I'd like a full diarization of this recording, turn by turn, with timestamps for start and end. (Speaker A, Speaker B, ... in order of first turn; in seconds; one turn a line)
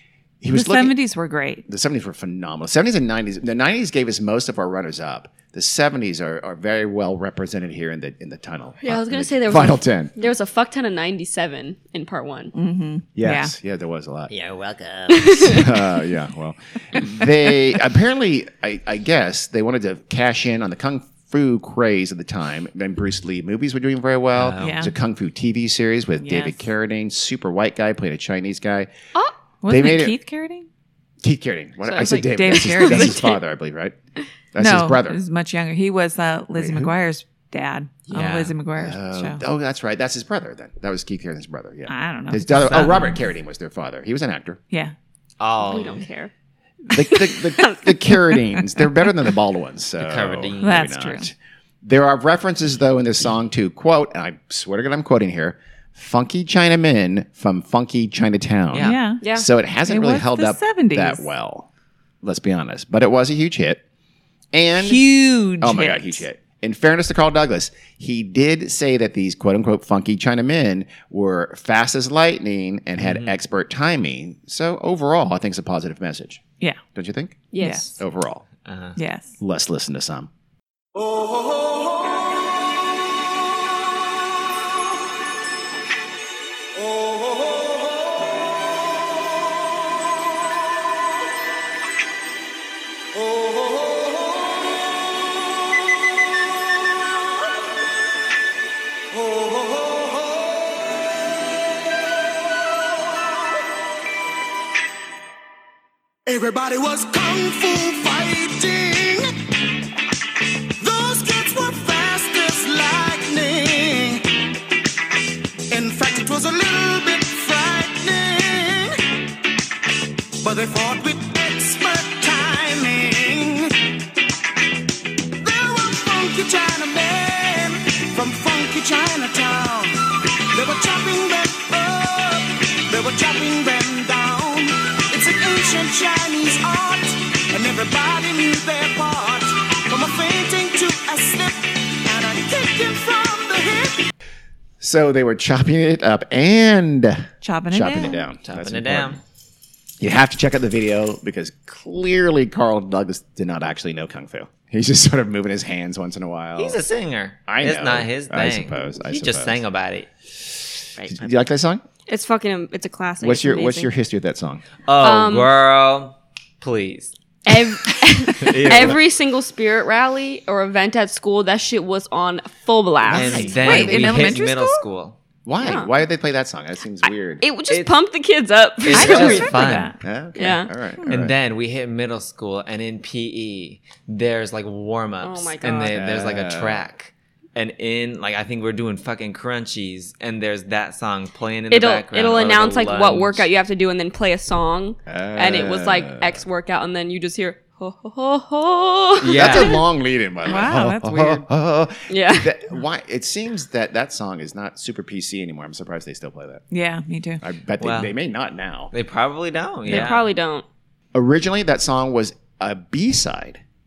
Speaker A: 0.4-1.0
Speaker B: 0.5-1.6
Speaker A: 1.7-10.1
Speaker C: 8.8-12.5
Speaker B: 12.5-13.5
Speaker A: 13.2-14.3
Speaker D: 14.3-15.3
Speaker C: 15.1-15.8
Speaker A: 15.4-28.9
Speaker D: 24.3-24.9
Speaker B: 24.6-24.9
Speaker B: 26.2-26.6
Speaker B: 29.6-30.7
Speaker A: 29.6-30.1
Speaker A: 31.2-33.9
Speaker C: 31.8-33.3
Speaker B: 32.1-33.3
Speaker A: 34.5-35.2
Speaker B: 34.6-39.4
Speaker A: 36.5-36.9
Speaker D: 38.1-38.5
Speaker A: 38.8-44.6
Speaker B: 41.9-43.1
Speaker D: 42.7-43.1
Speaker D: 45.4-46.0
Speaker C: 45.6-46.3
Speaker A: 46.9-61.7
Speaker C: 46.9-48.4
Speaker D: 50.0-50.8
Speaker B: 50.6-51.3
Speaker D: 58.7-59.0
Speaker B: 58.8-59.2
Speaker C: 59.2-59.5
Speaker B: 59.9-61.3
Speaker A: 62.2-63.8
Speaker A: 64.5-65.0
Speaker B: 64.8-66.2
Speaker A: 65.6-76.4
Speaker D: 73.0-73.3
Speaker A: 76.9-77.5
Speaker C: 77.5-78.0
Speaker B: 77.6-77.9
Speaker A: 78.0-78.5
Speaker D: 78.6-79.0
Speaker B: 79.0-79.4
Speaker A: 79.4-80.3
Speaker E: 99.2-99.8
Speaker E: 106.3-109.3
Speaker E: 110.8-114.2
Speaker E: 115.7-118.9
Speaker E: 120.4-123.7
Speaker E: 125.4-129.9
Speaker E: 130.5-141.5
Speaker E: 142.1-143.9
Speaker A: 144.8-149.2
Speaker B: 147.4-148.2
Speaker D: 148.4-149.2
Speaker A: 150.0-156.8
Speaker D: 156.6-160.1
Speaker A: 157.5-159.6
Speaker A: 160.3-161.8
Speaker C: 162.1-163.9
Speaker A: 163.2-164.6
Speaker D: 164.9-167.1
Speaker C: 165.0-165.5
Speaker C: 167.4-173.6
Speaker D: 168.4-169.0
Speaker A: 173.0-174.4
Speaker D: 173.1-175.2
Speaker B: 173.5-174.8
Speaker A: 175.4-177.4
Speaker C: 175.6-175.9
Speaker C: 177.4-179.6
Speaker D: 177.7-177.9
Speaker D: 178.8-179.9
Speaker B: 178.9-180.0
Speaker A: 180.0-181.3
Speaker C: 180.4-180.7
Speaker D: 181.1-193.5
Speaker C: 185.2-185.9
Speaker A: 185.9-186.9
Speaker C: 191.7-199.8
Speaker A: 195.1-196.4
Speaker D: 199.2-199.8
Speaker A: 199.3-206.6
Speaker B: 200.4-201.4
Speaker C: 202.1-202.5
Speaker B: 206.7-207.4
Speaker A: 207.4-208.9
Speaker D: 207.8-208.1
Speaker D: 208.9-210.2
Speaker C: 209.9-210.7
Speaker A: 209.9-210.1
Speaker A: 211.1-213.6